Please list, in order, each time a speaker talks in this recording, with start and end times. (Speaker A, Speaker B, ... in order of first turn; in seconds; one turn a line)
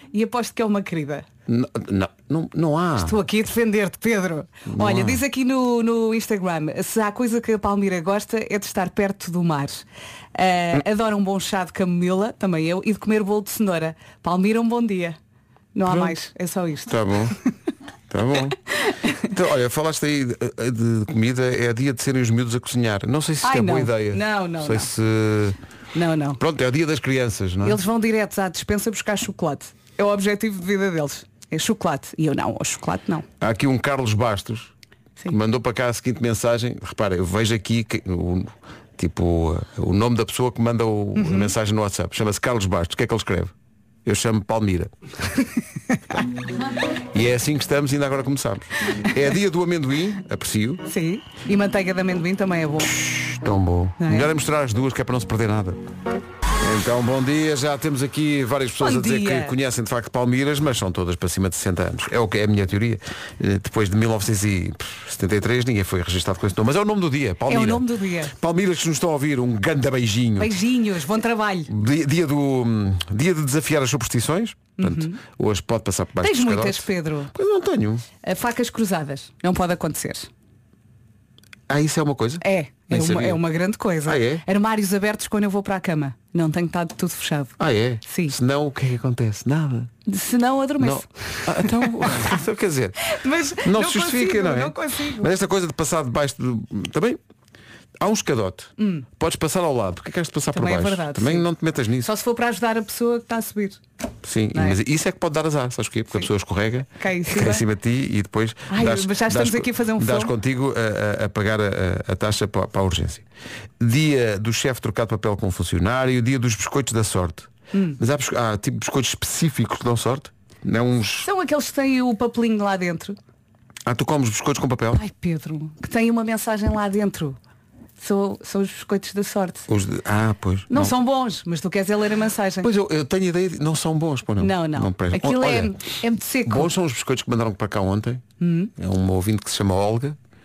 Speaker A: 0.1-1.2
Speaker B: 1.5-3.1
Speaker A: 3.0-9.8
Speaker B: 4.7-5.2
Speaker A: 10.3-15.2
Speaker A: 15.7-16.9
Speaker B: 15.9-16.1
Speaker B: 16.9-17.3
Speaker B: 18.1-18.6
Speaker B: 19.2-25.6
Speaker A: 23.4-24.9
Speaker A: 25.9-26.4
Speaker B: 26.4-27.8
Speaker A: 27.6-33.2
Speaker B: 33.4-34.7
Speaker B: 35.3-43.5
Speaker A: 41.2-41.5
Speaker B: 44.0-44.9
Speaker B: 47.1-50.8
Speaker A: 50.9-53.0
Speaker B: 53.0-55.8
Speaker A: 54.0-54.3
Speaker B: 56.6-70.5
Speaker A: 58.8-59.5
Speaker A: 67.5-68.3
Speaker A: 70.4-71.7
Speaker B: 71.7-78.0
Speaker A: 74.8-75.2
Speaker A: 76.2-77.3
Speaker A: 78.2-80.3
Speaker B: 81.7-83.4
Speaker A: 82.4-87.5
Speaker B: 84.0-84.4
Speaker B: 87.6-89.9
Speaker A: 88.0-88.3
Speaker A: 90.0-91.9
Speaker B: 90.8-93.0
Speaker A: 93.1-95.3
Speaker B: 93.6-97.2
Speaker B: 98.0-102.1
Speaker A: 98.8-99.0
Speaker A: 100.5-101.5
Speaker A: 102.0-103.8
Speaker B: 104.2-113.2
Speaker A: 107.0-107.6
Speaker A: 108.7-110.3
Speaker B: 113.8-121.3
Speaker A: 117.7-118.0
Speaker A: 121.2-123.2
Speaker B: 123.8-125.0
Speaker A: 124.9-127.4
Speaker A: 128.0-129.7
Speaker B: 129.7-130.9
Speaker A: 130.7-132.7
Speaker B: 132.6-135.7
Speaker A: 134.4-136.7
Speaker B: 136.4-138.2
Speaker A: 138.4-138.7
Speaker B: 138.8-140.2